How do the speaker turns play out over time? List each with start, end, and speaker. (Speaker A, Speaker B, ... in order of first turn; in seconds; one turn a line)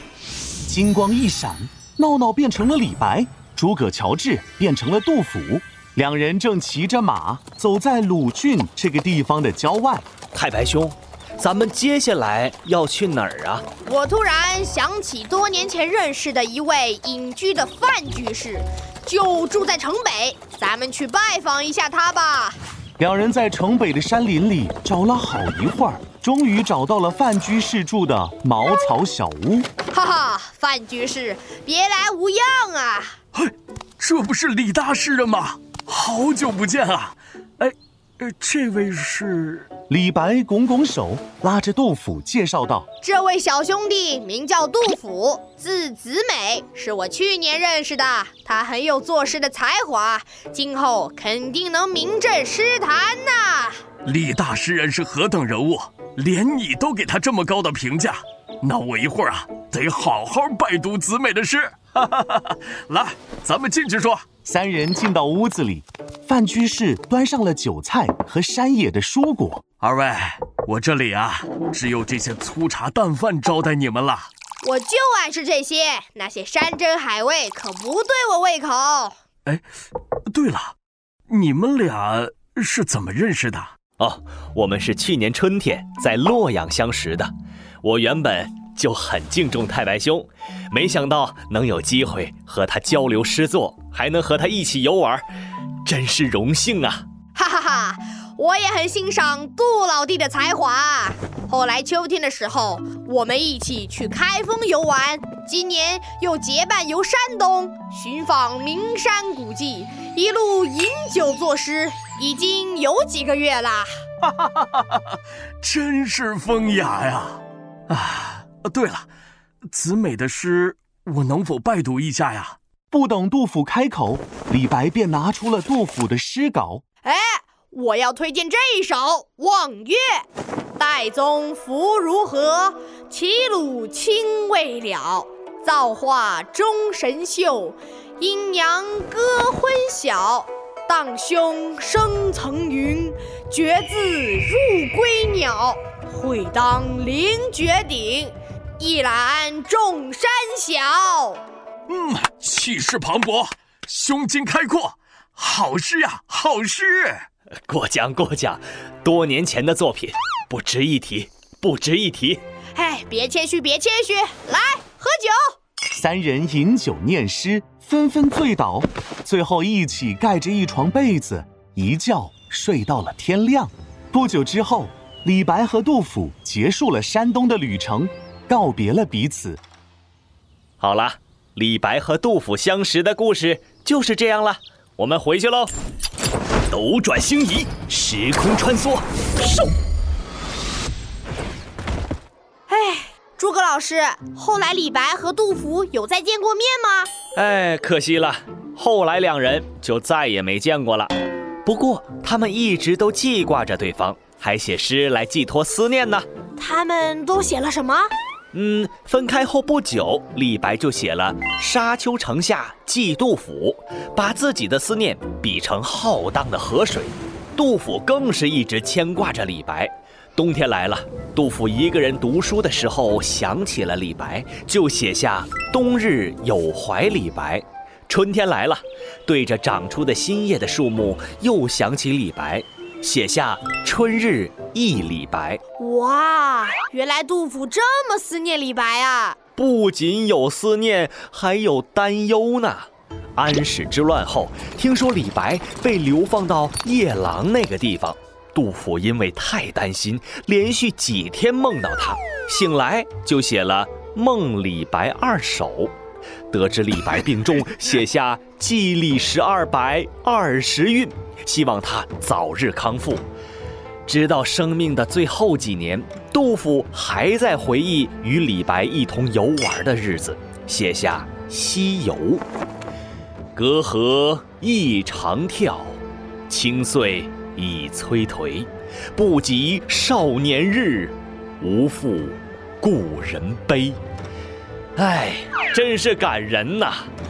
Speaker A: 0.7-10.1
Speaker B: 10.3-13.7
Speaker C: 13.8-22.6
Speaker A: 23.0-29.7
Speaker C: 29.9-33.2
Speaker D: 33.4-39.7
Speaker A: 39.9-42.9
Speaker C: 43.0-53.8
Speaker D: 54.0-64.3
Speaker A: 64.5-69.6
Speaker D: 69.8-74.3
Speaker C: 74.6-79.2
Speaker D: 80.3-80.8
Speaker D: 81.3-83.7
Speaker B: 84.0-95.2
Speaker B: 95.8-97.0
Speaker C: 97.3-113.9
Speaker D: 114.2-119.1
Speaker D: 119.7-122.6
Speaker A: 122.9-126.8
Speaker C: 127.0-130.3
Speaker C: 130.8-151.4
Speaker D: 151.9-157.3
Speaker B: 157.7-162.4
Speaker C: 162.8-165.6
Speaker A: 165.9-179.6
Speaker B: 180.8-185.7
Speaker B: 186.7-189.7
Speaker C: 192.7-197.1
Speaker B: 197.3-201.1
Speaker B: 201.7-206.3
Speaker C: 206.6-208.1
Speaker B: 208.5-235.6
Speaker C: 235.8-239.4
Speaker B: 239.6-255.9
Speaker B: 256.5-263.2
Speaker B: 264.1-272.4
Speaker B: 273.6-284.0
Speaker B: 285.0-287.1